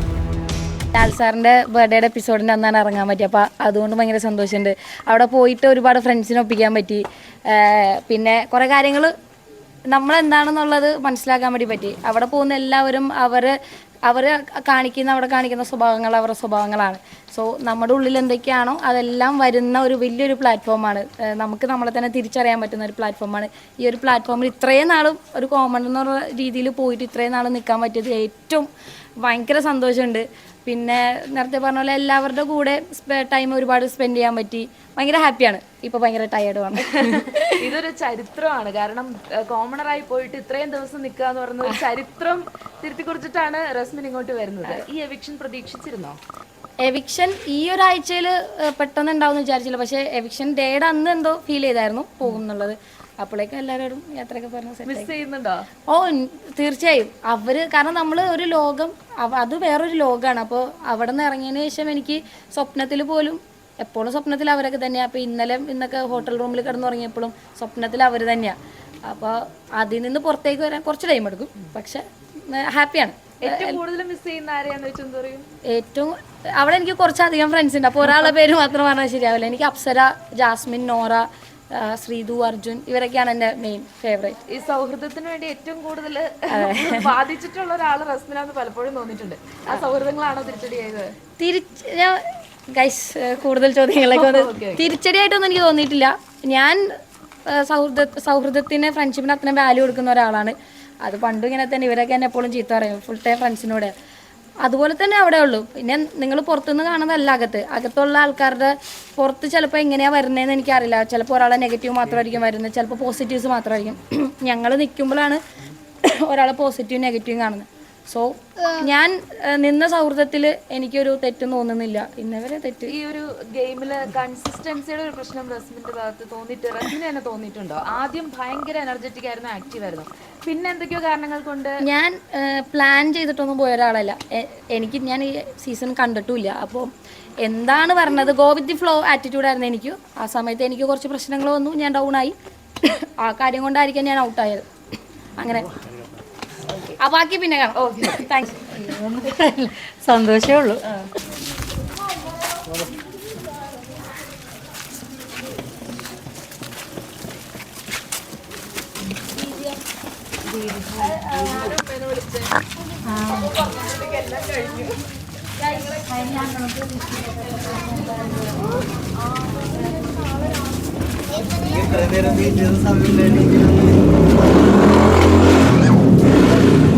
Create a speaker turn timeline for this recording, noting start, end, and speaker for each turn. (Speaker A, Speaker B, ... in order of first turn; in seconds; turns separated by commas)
Speaker A: 0.9-9.1, Speaker A: 9.9-28.7, Speaker A: 29.2-37.7, Speaker B: 36.8-46.2, Speaker A: 46.8-55.1, Speaker B: 54.9-55.6, Speaker A: 55.9-73.8, Speaker B: 73.4-75.5, Speaker A: 75.7-84.4, Speaker B: 84.5-91.1, Speaker A: 86.5-87.1, Speaker A: 91.4-96.8, Speaker B: 94.1-94.9, Speaker A: 97.5-103.9, Speaker A: 104.6-115.4, Speaker A: 116.0-122.9, Speaker B: 122.9-131.8, Speaker A: 131.8-136.9, Speaker A: 137.4-144.7, Speaker A: 145.4-145.7, Speaker B: 146.7-147.0, Speaker A: 147.0-148.8, Speaker B: 147.8-148.3, Speaker C: 148.7-150.8, Speaker A: 159.4-159.8, Speaker B: 160.4-162.6, Speaker A: 161.0-161.8, Speaker C: 163.1-163.6, Speaker B: 163.2-165.0, Speaker A: 165.6-168.7, Speaker B: 165.7-166.6, Speaker B: 169.3-170.2, Speaker D: 171.5-174.8